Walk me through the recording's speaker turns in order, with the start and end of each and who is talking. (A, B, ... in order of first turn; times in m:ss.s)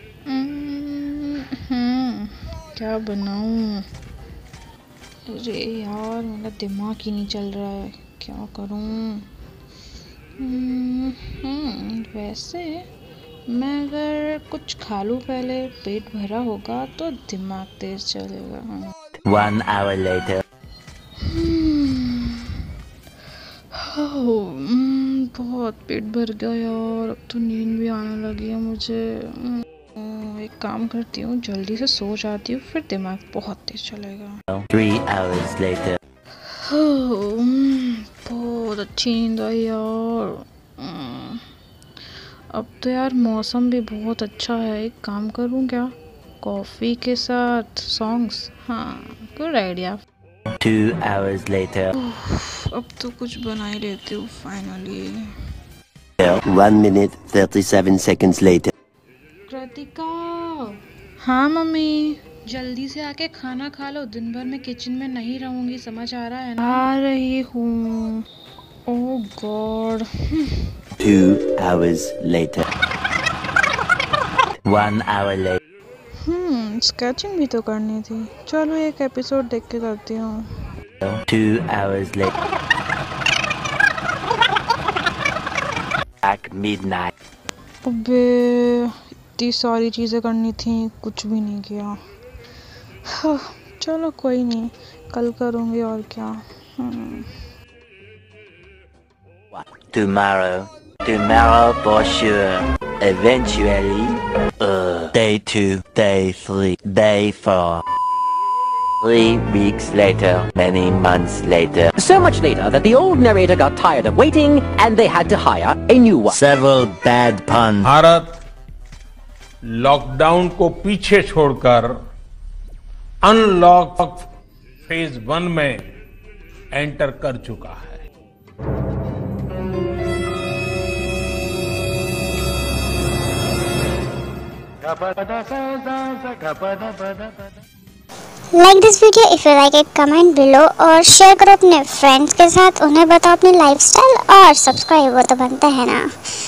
0:00.2-0:03.8 A
0:05.3-0:09.3 A
0:10.4-0:12.8 A
0:13.5-0:18.8 A
0:19.2-0:20.4 B
0:21.2-0:22.4 A
0:23.7-0:34.4 A
0:34.5-0:36.0 B
0:36.6-0:41.4 A
0:42.5-0:50.0 A
0:50.6-0:51.9 B
0:52.0-0:55.3 A
0:56.2-0:58.7 C
0:59.5-1:00.6 A
1:01.2-1:08.2 A
1:08.9-1:10.4 A
1:11.0-1:12.7 B
1:14.6-1:15.6 B
1:16.2-1:20.4 A
1:21.1-1:22.3 B
1:26.2-1:27.1 B
1:27.8-1:32.0 A
1:33.2-1:37.3 A
1:39.5-1:47.8 B
1:49.0-1:51.9 B
1:52.0-1:56.4 D
1:56.3-1:57.9 B
1:57.8-1:58.4 E
1:59.7-2:01.9 E
2:03.2-2:04.2 E
2:04.8-2:05.8 E
2:06.7-2:08.0 E
2:18.5-2:26.1 F